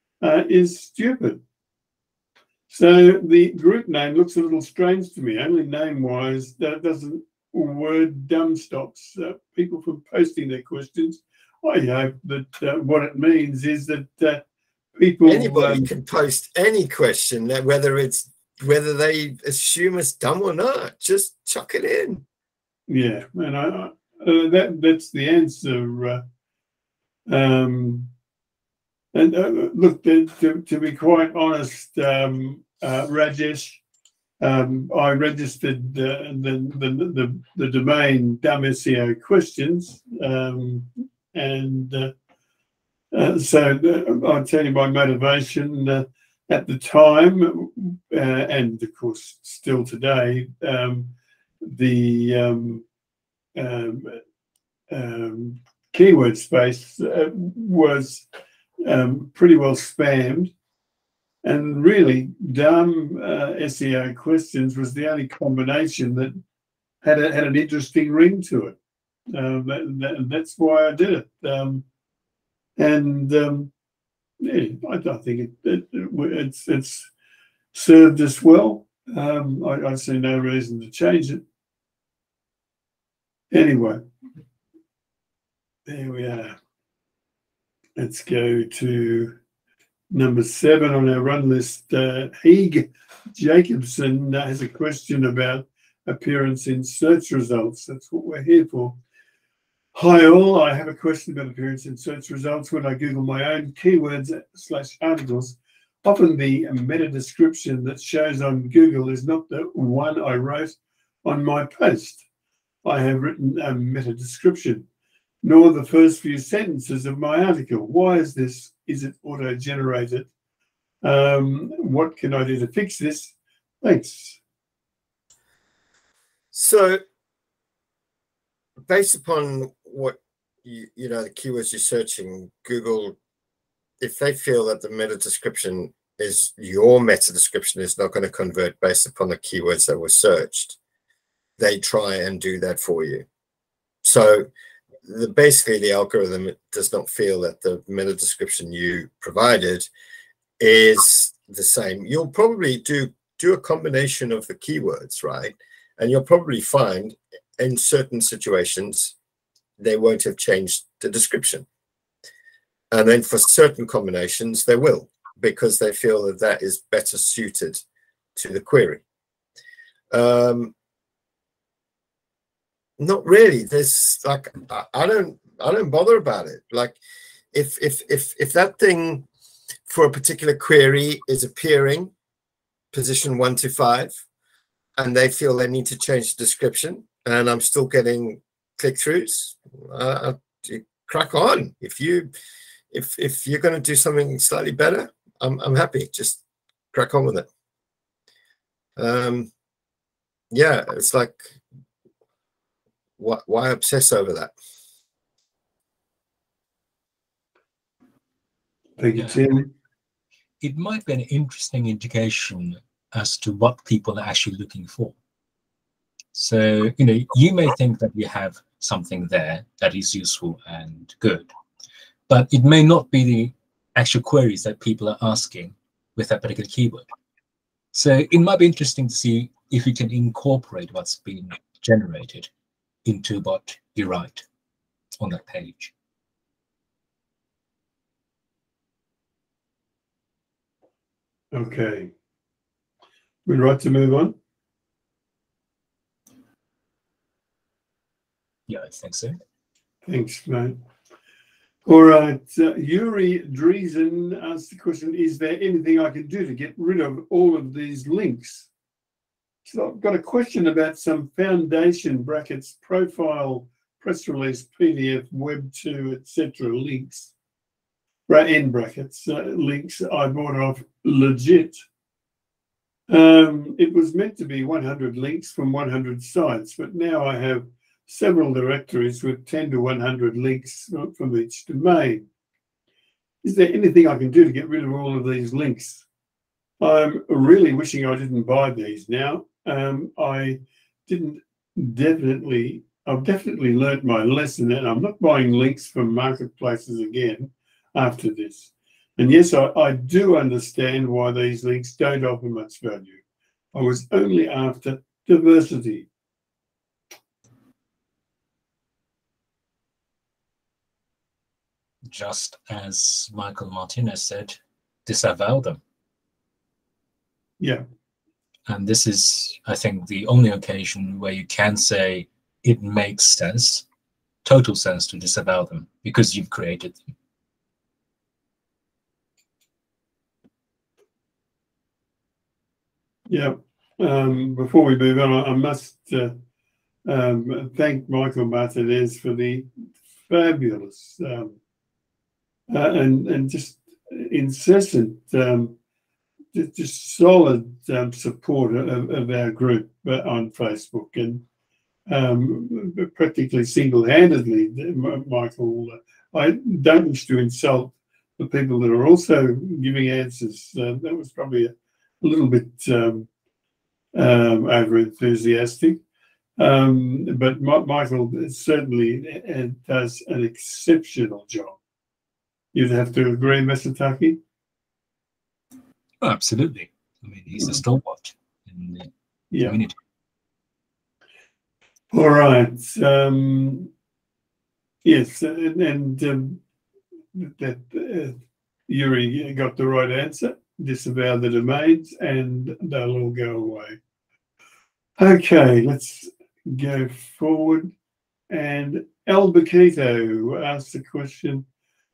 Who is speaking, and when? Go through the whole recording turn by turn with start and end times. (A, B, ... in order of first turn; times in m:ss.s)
0:00.2-0:01.4 A
0:02.7-0:14.4 A
0:15.0-0:15.9 A
0:15.2-0:22.2 B
0:22.9-0:26.2 A
0:27.3-0:28.1 A
0:29.1-0:33.8 A
0:34.4-0:42.1 A
0:43.1-0:52.8 A
0:53.6-0:54.2 A
0:54.9-0:58.2 A
0:58.9-1:00.5 A
1:01.4-1:06.4 A
1:07.0-1:08.8 A
1:09.3-1:11.8 A
1:12.8-1:13.7 A
1:14.4-1:17.1 A
1:17.7-1:21.4 A
1:23.5-1:24.0 A
1:25.9-1:26.6 A
1:28.0-1:29.4 A
1:30.1-1:39.0 A
1:39.9-1:52.2 A
1:52.8-1:54.9 A
1:55.4-2:00.3 A
2:01.0-2:04.4 A
2:06.5-2:07.0 B
2:08.9-2:13.1 B
2:14.0-2:20.8 B
2:21.6-2:23.2 B
2:24.0-2:24.5 B
2:25.0-2:29.9 B
2:30.6-2:39.1 B
2:39.8-2:41.6 B
2:42.9-2:47.8 B
2:48.4-2:49.0 B
2:50.1-2:50.7 B
2:53.0-2:57.0 B
2:57.5-2:59.3 B
2:59.9-3:02.1 B
3:02.9-3:04.2 B
3:05.0-3:12.3 B
3:12.9-3:16.4 B
3:16.9-3:17.5 B
3:19.0-3:19.5 B
3:20.5-3:21.6 B
3:23.2-3:24.5 B
3:29.0-3:29.7 A
3:30.6-3:35.1 C
3:36.3-3:41.5 C
3:42.3-3:47.1 C
3:47.9-3:52.5 C
3:53.1-3:54.4 C
3:55.2-3:55.9 C
4:01.5-4:02.1 A
4:03.4-4:04.4 A
4:08.7-4:09.4 C
4:10.1-4:10.8 A
4:11.9-4:18.7 A
4:19.6-4:27.3 A
4:28.3-4:31.8 A
4:33.1-4:42.3 A
4:43.4-4:46.0 A
4:46.8-5:03.2 A
5:03.7-5:06.1 A
5:12.1-5:15.8 C
5:18.7-5:23.8 C
5:24.4-5:27.0 C
5:33.3-5:36.4 A
5:37.1-5:41.6 A
5:42.7-5:45.8 A
5:46.5-5:51.4 A
5:52.1-6:03.3 A
6:04.2-6:06.0 A
6:06.6-6:11.8 A
6:12.7-6:14.4 A
6:16.2-6:19.1 C
6:19.5-6:19.8 A
6:19.6-6:19.9 C
6:22.1-6:23.9 A
6:25.0-6:26.6 A
6:27.3-6:34.0 A
6:35.2-6:37.9 A
6:38.5-6:41.6 A